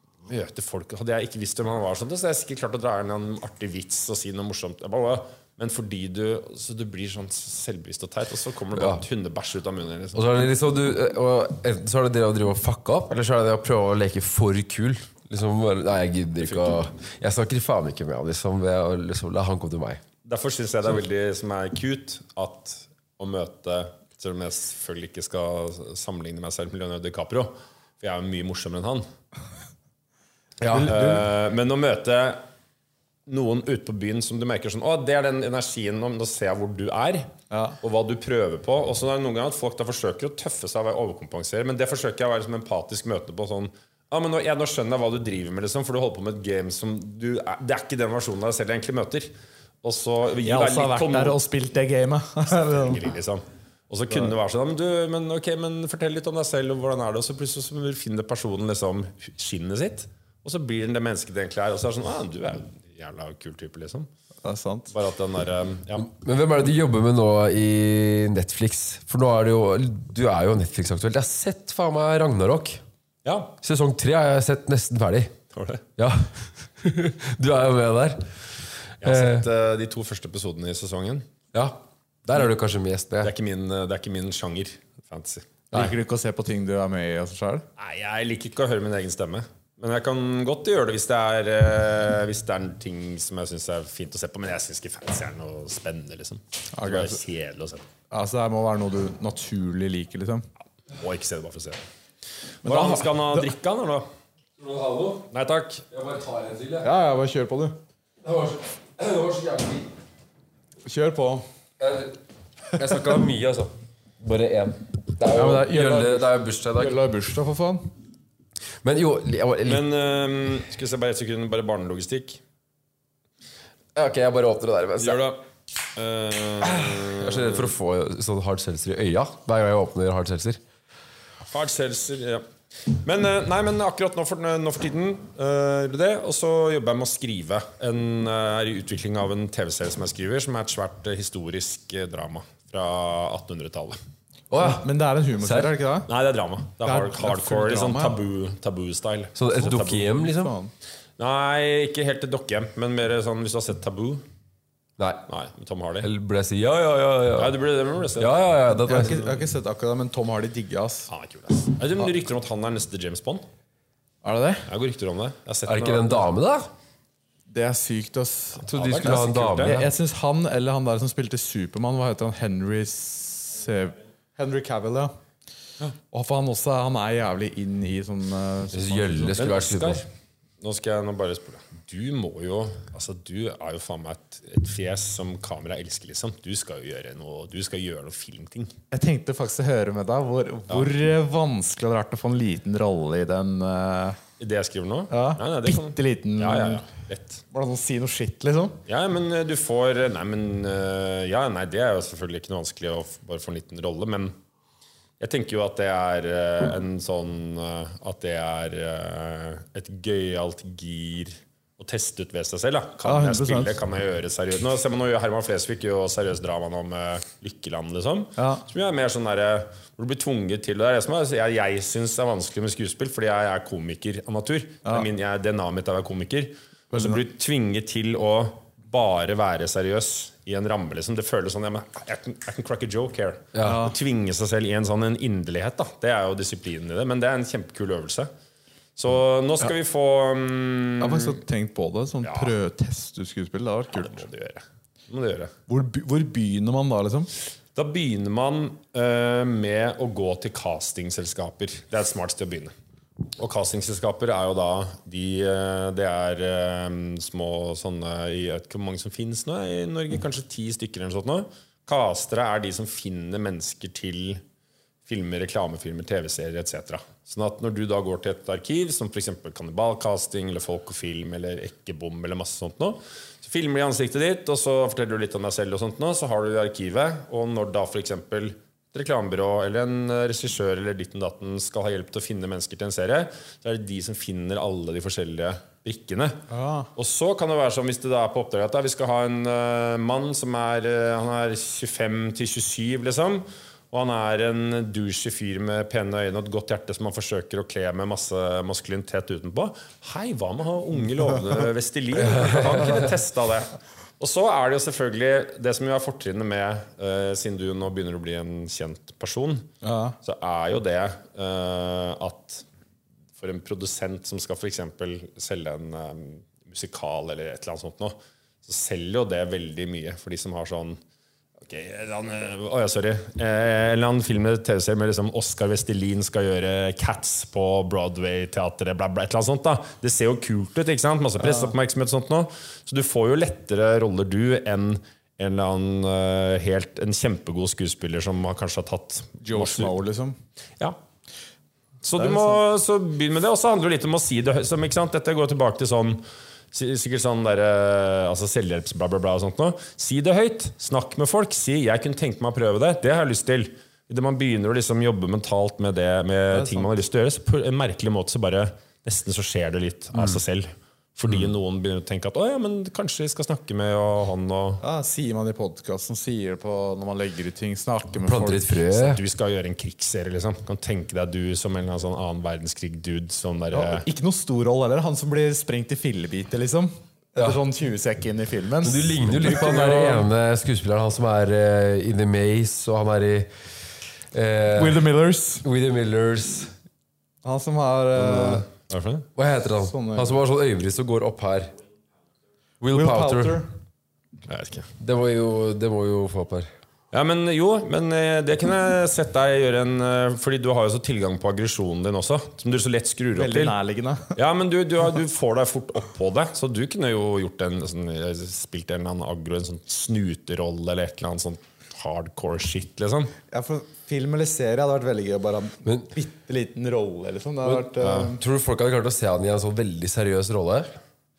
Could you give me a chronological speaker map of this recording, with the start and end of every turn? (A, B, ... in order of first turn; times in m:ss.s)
0:00.3-0:10.4 A
0:08.8-0:09.0 B
0:10.1-0:20.0 B
0:16.4-0:16.8 A
0:20.2-0:29.1 A
0:30.6-0:31.0 B
0:30.7-0:31.2 C
0:30.7-0:32.4 A
0:33.3-0:49.3 A
0:37.5-0:37.8 C
0:49.8-0:51.4 A
0:50.4-0:53.0 C
0:52.4-1:04.1 A
1:04.4-1:04.9 C
1:04.9-1:06.1 A
1:06.0-1:12.8 B
1:13.2-1:13.5 A
1:13.6-1:15.3 B
1:15.5-1:15.8 A
1:16.0-1:18.4 B
1:19.0-1:21.3 A
1:19.0-1:19.5 B
1:21.5-1:23.3 B
1:23.2-1:25.9 A
1:25.7-1:27.7 C
1:27.8-1:37.8 A
1:36.7-1:37.2 C
1:38.1-1:40.5 C
1:40.9-1:41.8 A
1:42.6-1:43.5 C
1:42.6-1:44.0 A
1:44.6-1:45.3 B
1:45.3-1:45.8 A
1:45.9-1:46.9 B
1:46.8-1:47.8 C
1:48.2-1:49.9 B
1:50.8-1:51.4 C
1:51.8-1:52.2 B
1:52.7-1:57.0 B
1:55.3-1:57.9 C
1:58.8-1:59.9 B
1:59.7-2:02.4 A
2:04.0-2:05.2 B
2:05.0-2:05.4 A
2:06.0-2:07.7 A
2:06.8-2:10.6 B
2:11.5-2:24.0 A
2:24.5-2:24.9 B
2:24.6-2:26.1 C
2:25.4-2:25.7 B
2:26.1-2:30.1 A
2:26.8-2:28.2 C
2:29.4-2:30.5 B
2:30.2-2:30.7 C
2:31.2-2:34.2 A
2:35.0-2:35.2 B
2:35.3-2:36.1 A
2:36.0-2:37.6 B
2:37.4-2:38.4 A
2:38.2-2:39.2 B
2:38.8-2:41.1 C
2:41.1-2:43.5 A
2:44.2-2:44.7 C
2:44.7-2:46.2 A
2:45.7-2:46.7 B
2:47.5-2:55.1 C
2:48.6-2:49.8 A
2:48.7-2:49.9 B
2:56.1-2:59.4 C
2:58.7-3:00.0 B
2:59.4-3:00.1 A
3:00.6-3:08.8 A
3:08.9-3:14.2 C
3:14.4-3:17.4 A
3:15.1-3:16.8 C
3:17.5-3:18.8 C
3:18.9-3:24.4 A
3:25.2-3:58.3 A
3:33.0-3:33.8 C
3:38.4-3:38.6 C
3:46.9-3:47.2 C
3:53.5-3:53.8 B
3:53.6-3:54.0 C
3:59.0-4:01.4 A
4:01.0-4:04.2 C
4:02.2-4:02.5 A
4:03.9-4:05.5 A
4:05.7-4:07.3 C
4:07.7-4:12.7 A
4:13.4-4:24.4 A
4:25.1-4:46.4 A
4:46.5-4:46.9 C
4:47.0-5:09.7 A
5:02.2-5:03.0 B
5:09.8-5:10.2 C
5:10.2-5:12.6 A
5:13.4-5:21.0 A
5:21.6-5:39.9 A
5:31.4-5:31.7 C
5:39.4-5:40.4 C
5:42.0-6:04.8 A
5:42.2-5:42.6 C
5:56.5-5:56.9 C
6:04.8-6:08.8 C
6:08.2-6:09.2 B
6:09.0-6:14.0 A
6:13.7-6:20.3 C
6:18.8-6:23.5 B
6:24.3-6:25.1 B
6:24.8-6:25.6 C
6:25.6-6:26.7 B
6:27.4-6:28.7 C
6:28.2-6:29.3 A
6:29.4-6:31.7 B
6:29.8-6:30.4 C
6:32.8-6:33.6 B
6:32.9-6:33.7 C
6:34.5-6:34.9 A
6:35.0-6:36.7 B
6:37.1-6:43.7 A
6:43.4-6:44.4 C
6:44.4-6:53.3 A
6:53.5-6:58.4 C
6:57.6-7:01.0 B